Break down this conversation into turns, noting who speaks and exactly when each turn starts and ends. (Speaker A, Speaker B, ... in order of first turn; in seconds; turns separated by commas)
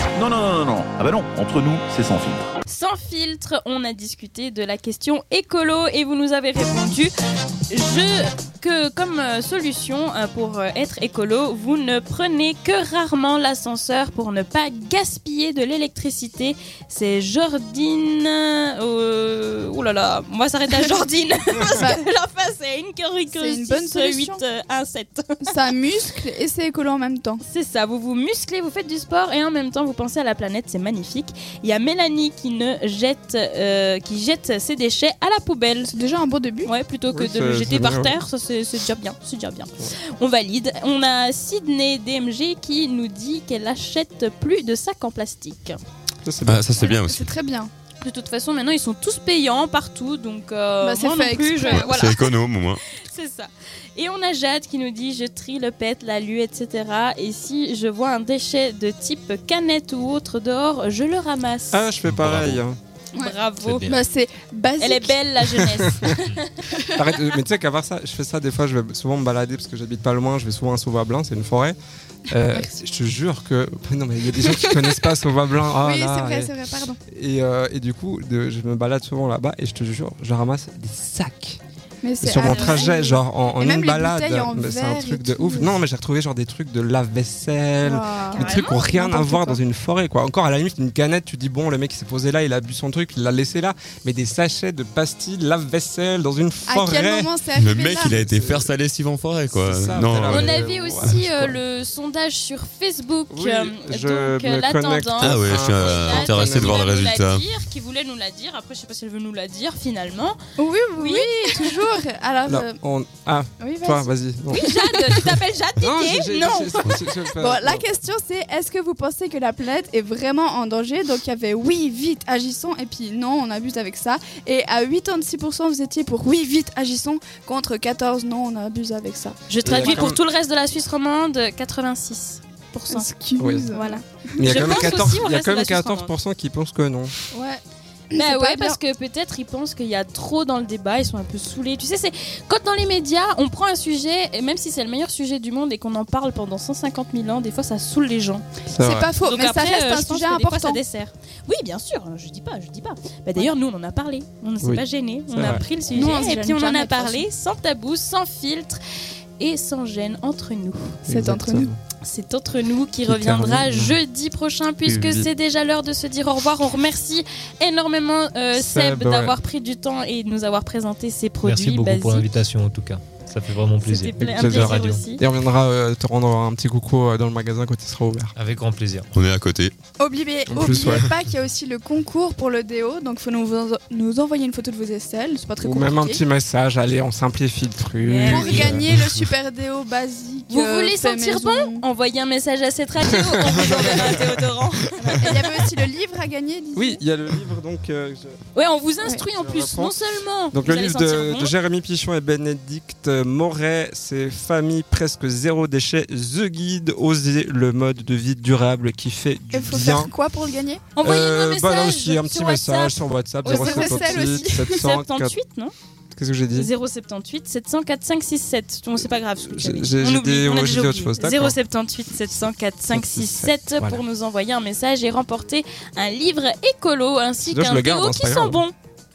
Speaker A: 0.1-2.5, Speaker B: 2.7-7.1, Speaker B: 7.7-25.4, Speaker C: 21.7-22.0, Speaker C: 23.3-24.4, Speaker C: 25.4-27.4, Speaker B: 27.4-35.9, Speaker C: 35.9-36.7, Speaker B: 36.6-45.8, Speaker D: 37.1-38.1, Speaker D: 46.2-46.7, Speaker E: 46.4-47.3, Speaker C: 46.8-47.7, Speaker B: 48.0-52.3, Speaker C: 50.8-51.9, Speaker E: 51.7-52.8, Speaker B: 53.0-61.9, Speaker D: 61.7-62.8, Speaker F: 62.1-62.6, Speaker B: 63.1-63.9, Speaker F: 63.6-64.0, Speaker C: 63.9-65.2, Speaker B: 64.8-66.6, Speaker C: 66.7-67.2, Speaker D: 66.9-71.8, Speaker D: 72.3-81.6, Speaker C: 74.5-74.8, Speaker C: 75.8-77.0, Speaker C: 82.0-85.8, Speaker D: 82.2-97.3, Speaker B: 82.4-82.9, Speaker C: 87.8-89.6, Speaker B: 88.4-88.8, Speaker C: 96.7-98.1, Speaker E: 97.5-101.2, Speaker D: 98.0-98.7, Speaker D: 99.5-101.6, Speaker B: 100.3-110.4, Speaker D: 103.3-106.8, Speaker E: 105.2-107.4, Speaker C: 110.6-112.8, Speaker B: 111.0-111.5, Speaker D: 112.5-115.2, Speaker C: 113.6-114.1, Speaker B: 114.5-117.1, Speaker D: 115.8-117.8, Speaker C: 117.4-130.1, Speaker B: 129.5-133.1, Speaker D: 129.6-130.2, Speaker C: 132.9-135.0, Speaker D: 133.4-133.7, Speaker B: 133.7-136.1, Speaker D: 134.4-137.1, Speaker C: 137.3-138.8, Speaker B: 138.1-148.4, Speaker D: 148.7-149.1, Speaker C: 148.8-150.8, Speaker B: 149.2-158.8, Speaker D: 154.6-155.6, Speaker C: 155.9-157.2, Speaker B: 159.4-161.0, Speaker D: 161.1-161.8, Speaker C: 161.1-161.7, Speaker B: 162.0-172.3, Speaker D: 163.1-164.0, Speaker D: 164.8-165.3, Speaker D: 168.6-169.4, Speaker F: 171.4-175.0, Speaker B: 173.8-175.2, Speaker D: 174.2-178.3, Speaker F: 178.3-179.1, Speaker E: 179.1-179.7, Speaker C: 180.0-186.2, Speaker D: 180.5-181.1, Speaker D: 185.6-189.1, Speaker B: 188.0-188.8, Speaker C: 188.2-191.8, Speaker B: 190.5-195.4, Speaker C: 195.1-197.0, Speaker D: 196.7-198.4, Speaker B: 198.5-201.5, Speaker D: 199.3-200.0, Speaker D: 200.5-210.1, Speaker C: 209.5-210.8, Speaker B: 210.9-215.7, Speaker D: 211.0-215.4, Speaker C: 213.4-214.9, Speaker D: 216.1-216.7, Speaker B: 216.5-228.7, Speaker D: 218.9-221.6, Speaker D: 222.9-224.0, Speaker D: 227.4-228.6